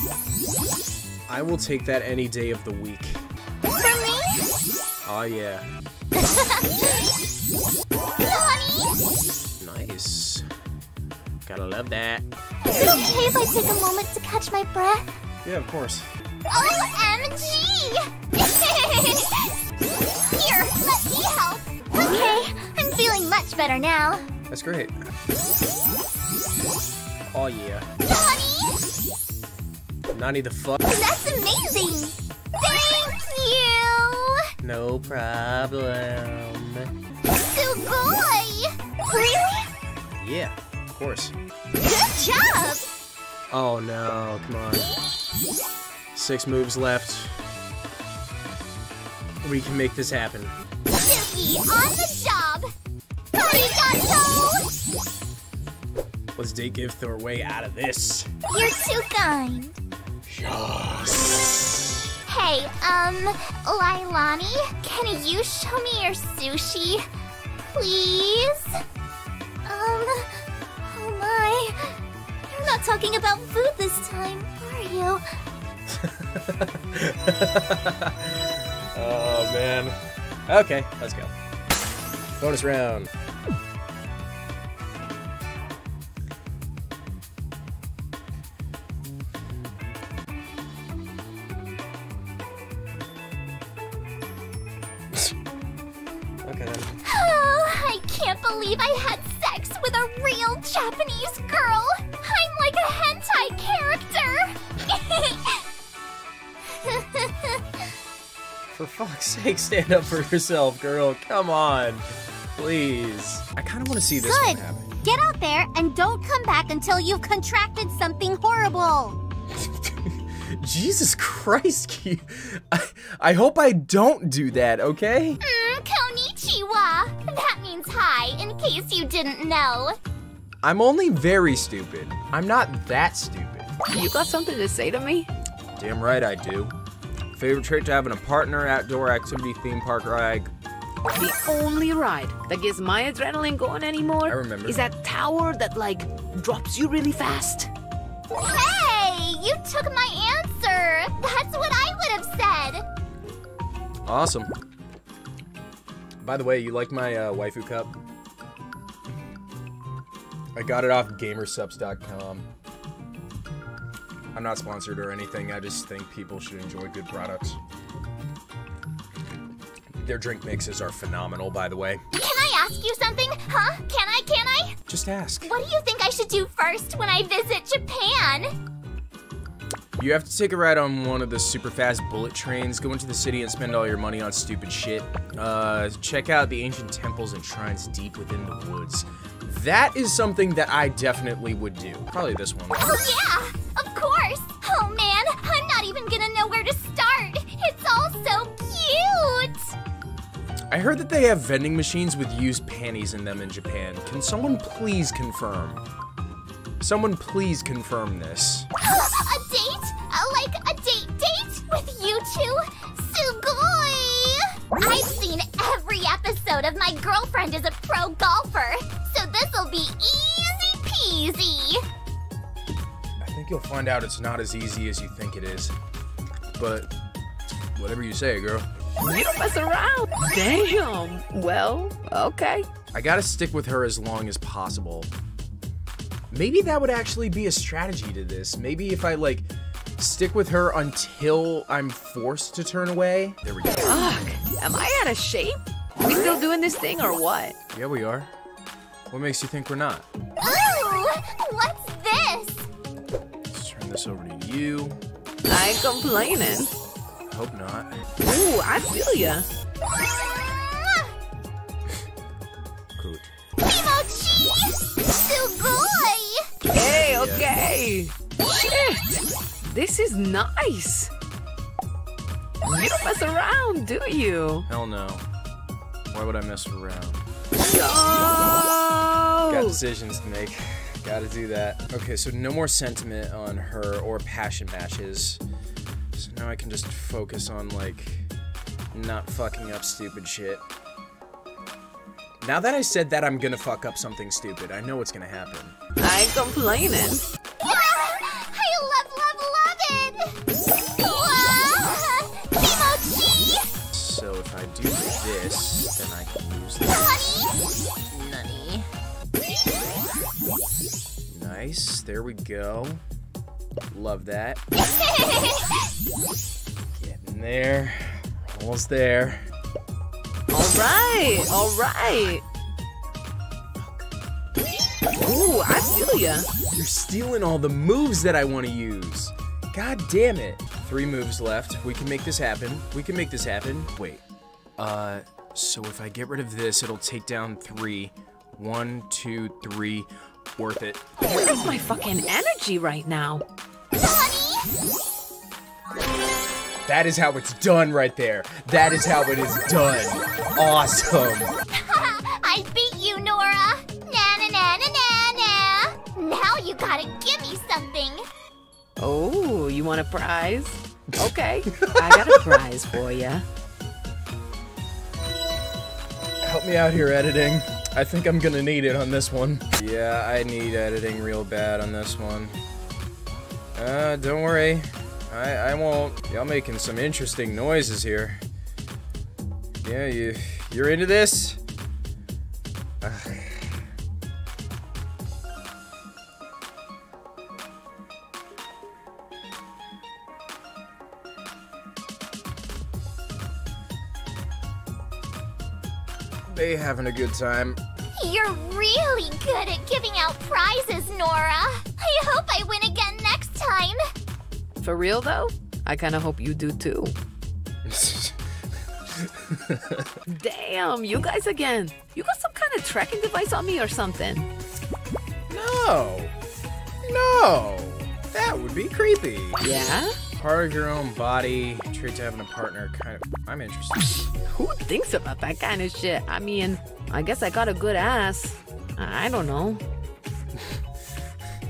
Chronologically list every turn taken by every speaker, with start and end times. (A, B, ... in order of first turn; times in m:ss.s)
0:01.3-0:03.2 A
0:03.6-0:04.4 B
0:05.0-0:05.6 A
0:06.1-0:07.1 B
0:08.2-0:09.0 B
0:09.6-0:10.4 A
0:11.4-0:12.2 A
0:12.6-0:15.0 B
0:15.4-0:16.1 A
0:16.5-0:19.5 B
0:20.3-0:24.2 B
0:24.5-0:25.1 A
0:27.3-0:27.9 A
0:28.0-0:28.8 B
0:30.1-0:30.8 A
0:30.8-0:34.4 B
0:34.6-0:36.9 A
0:37.2-0:39.7 B
0:40.2-0:41.3 A
0:41.8-0:42.9 B
0:43.5-0:44.9 A
0:46.1-0:47.4 A
0:49.4-0:50.6 A
0:50.9-0:52.7 B
0:53.3-0:54.7 B
0:56.4-0:58.3 A
0:58.5-0:59.8 B
1:00.2-1:02.0 A
1:02.3-1:07.0 B
1:07.7-1:08.8 B
1:09.6-1:11.9 B
1:12.5-1:15.2 B
1:15.9-1:21.3 A
1:22.3-1:23.1 A
1:36.4-1:37.0 A
1:37.0-1:45.6 B
1:46.7-1:47.6 B
1:48.7-1:54.9 A
1:54.2-1:59.2 B
1:59.6-2:05.4 A
2:05.4-2:10.0 B
2:10.6-2:13.7 A
2:13.9-2:15.3 C
2:15.8-2:16.7 A
2:17.3-2:20.5 A
2:21.1-2:27.7 C
2:24.2-2:24.8 A
2:28.4-2:32.8 B
2:34.0-2:34.5 A
2:36.2-2:37.9 A
2:40.5-2:42.4 A
2:44.3-2:47.6 A
2:50.0-2:52.0 A
2:52.1-2:54.8 B
2:54.9-2:55.5 A
2:55.5-2:58.5 B
3:00.0-3:12.9 A
3:12.8-3:19.7 B
3:20.7-3:25.8 A
3:26.8-3:28.7 A
3:28.8-3:41.8 B
3:43.2-3:45.7 A
3:46.6-3:46.9 A
3:47.7-3:48.7 A
3:49.0-3:52.7 C
3:52.9-3:55.1 A
3:56.3-4:04.1 A
4:03.8-4:07.6 C
4:07.7-4:08.3 A
4:09.1-4:10.0 A
4:10.4-4:12.7 B
4:13.5-4:15.0 A
4:15.5-4:16.7 C
4:17.3-4:18.0 A
4:18.2-4:19.5 C
4:19.9-4:21.1 B
4:23.0-4:23.3 A
4:23.6-4:26.5 B
4:26.7-4:31.1 C
4:26.7-4:27.5 A
4:32.6-4:34.6 C
4:34.7-4:35.2 A
4:36.1-4:37.2 A
4:37.6-4:39.8 C
4:39.4-4:45.4 A
4:46.1-4:48.3 A
4:48.9-4:50.6 A
4:52.4-4:55.8 A
4:56.0-4:57.3 C
4:57.6-5:00.4 B
5:01.0-5:03.7 B
5:03.9-5:07.2 A
5:06.9-5:07.5 B
5:08.1-5:08.8 A
5:11.3-5:13.0 A
5:13.9-5:14.6 A
5:15.0-5:15.6 B
5:16.9-5:19.5 A
5:20.5-5:22.4 C
5:23.8-5:24.1 A
5:25.2-5:26.5 C
5:26.7-5:34.2 A
5:34.8-5:41.1 A
5:41.3-5:43.4 C
5:43.9-5:44.7 B
5:46.8-5:51.5 A
5:51.7-5:58.2 B
5:59.0-6:03.4 C
6:01.7-6:02.6 A
6:06.4-6:12.6 A
6:13.7-6:18.4 A
6:19.8-6:21.6 A
6:23.0-6:23.8 A
6:36.5-6:37.8 A
6:38.1-6:44.0 B
6:44.8-6:47.1 C
6:47.8-6:48.4 A
6:49.1-6:50.1 A
6:50.3-6:54.5 C
6:55.5-6:56.3 A
6:57.0-6:59.6 A
6:59.6-7:00.1 C
7:00.4-7:04.2 A
7:04.3-7:09.8 C